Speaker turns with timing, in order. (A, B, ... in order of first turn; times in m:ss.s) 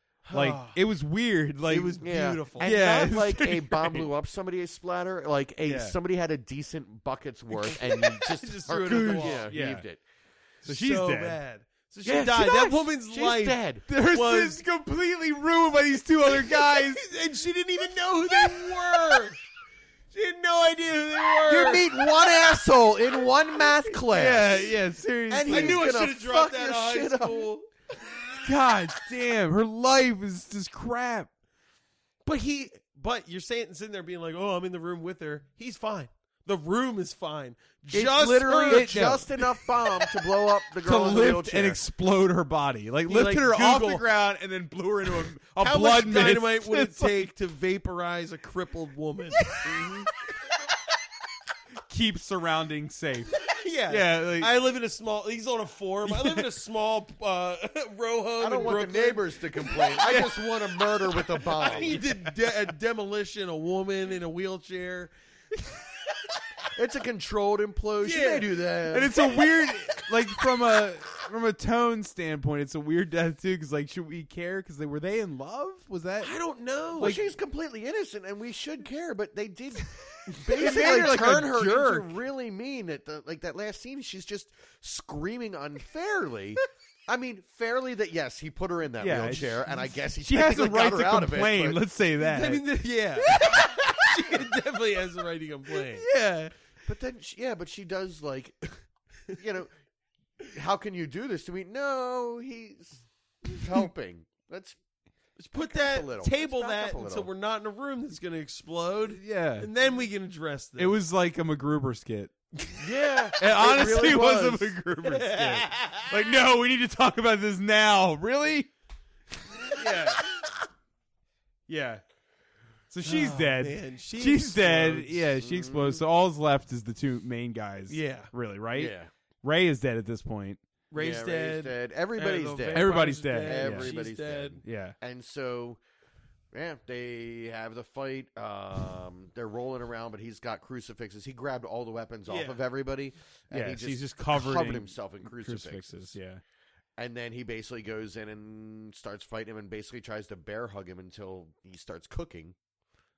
0:00.2-0:00.6 A
0:00.3-0:02.0 B
0:01.6-0:02.8 C
0:01.9-0:10.0 A
0:02.6-0:04.1 B
0:05.6-0:06.0 B
0:07.7-0:09.5 C
0:08.7-0:09.8 B
0:10.6-0:14.6 C
0:10.6-0:11.4 B
0:12.0-0:13.8 A
0:13.9-0:17.0 B
0:16.3-0:19.4 C
0:20.1-0:21.8 C
0:21.4-0:24.6 A
0:24.1-0:25.8 B
0:25.3-0:27.5 A
0:25.4-0:27.7 C
0:28.4-0:31.3 B
0:32.2-0:39.2 C
0:37.9-0:39.3 B
0:38.7-0:41.8 A
0:40.8-0:47.3 B
0:43.1-0:44.0 C
0:45.6-0:49.4 C
0:49.6-0:50.1 A
0:51.9-0:54.5 B
0:53.4-1:05.1 C
0:56.1-0:56.5 B
0:58.4-1:02.1 A
1:06.7-1:09.2 A
1:08.0-1:08.6 C
1:08.9-1:16.3 B
1:16.2-1:17.2 C
1:17.0-1:31.8 A
1:20.5-1:22.1 B
1:29.0-1:29.6 B
1:30.2-1:32.6 B
1:32.2-1:36.0 C
1:33.3-1:34.2 B
1:36.0-1:36.5 B
1:36.8-1:38.7 A
1:39.4-1:39.7 A
1:40.5-1:44.8 A
1:45.4-1:51.0 C
1:45.7-1:47.3 A
1:49.2-1:49.7 B
1:50.8-1:52.3 B
1:52.7-1:53.3 C
1:52.8-1:54.8 A
1:53.4-1:58.7 B
1:53.9-1:54.2 C
1:55.0-1:56.1 C
1:59.7-2:00.3 B
2:01.7-2:02.0 B
2:02.9-2:10.6 B
2:03.0-2:05.3 C
2:05.4-2:06.0 A
2:07.9-2:08.3 C
2:08.7-2:09.1 A
2:10.9-2:14.6 C
2:11.0-2:15.8 A
2:12.7-2:14.0 B
2:14.6-2:15.0 B
2:16.5-2:26.2 A
2:22.3-2:22.6 C
2:23.5-2:26.4 B
2:27.0-2:32.6 A